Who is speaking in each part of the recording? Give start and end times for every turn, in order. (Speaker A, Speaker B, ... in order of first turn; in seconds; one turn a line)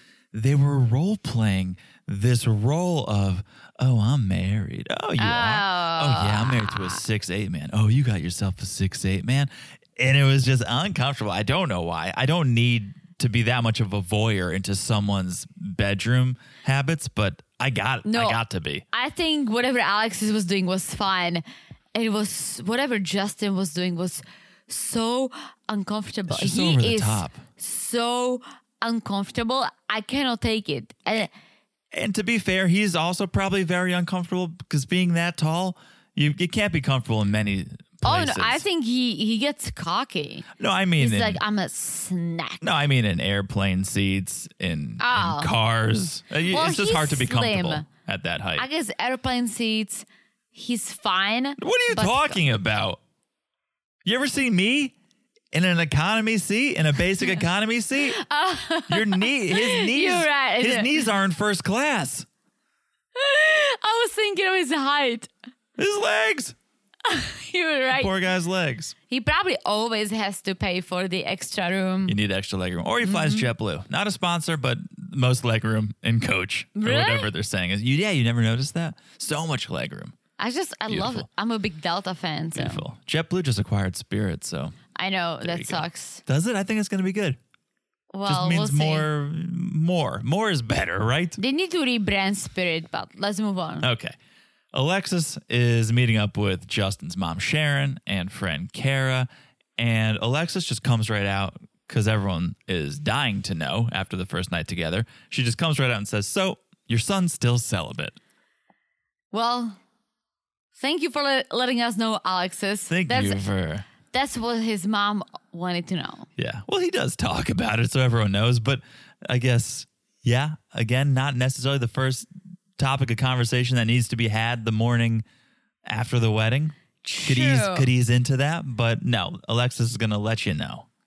Speaker A: 0.3-18.8
Speaker B: 5.2-7.0
Speaker B: 18.0-18.4
Speaker B: 18.9-31.3
Speaker A: 26.3-27.4
Speaker A: 31.9-38.6
Speaker B: 38.0-40.5
Speaker A: 40.6-41.4
Speaker B: 41.0-42.6
Speaker A: 42.6-48.7
Speaker B: 45.0-45.5
Speaker B: 46.5-47.9
Speaker B: 48.5-52.4
Speaker A: 51.6-53.0
Speaker A: 54.0-54.9
Speaker A: 55.5-58.2
Speaker B: 58.1-61.0
Speaker A: 58.9-62.3
Speaker B: 63.1-65.3
Speaker A: 65.8-66.5
Speaker B: 67.0-68.1
Speaker A: 67.9-68.9
Speaker B: 69.1-72.2
Speaker A: 72.0-80.2
Speaker B: 73.0-73.5
Speaker B: 76.8-77.3
Speaker B: 80.4-82.8
Speaker A: 80.9-81.3
Speaker A: 82.5-84.8
Speaker B: 85.0-86.2
Speaker A: 85.4-87.4
Speaker B: 88.1-89.1
Speaker A: 88.2-91.4
Speaker B: 91.4-93.9
Speaker A: 93.8-94.2
Speaker A: 94.7-108.2
Speaker B: 109.3-109.8
Speaker B: 110.8-113.4
Speaker A: 112.9-113.8
Speaker B: 114.1-116.3
Speaker A: 116.4-125.2
Speaker A: 125.8-130.8
Speaker B: 127.0-127.9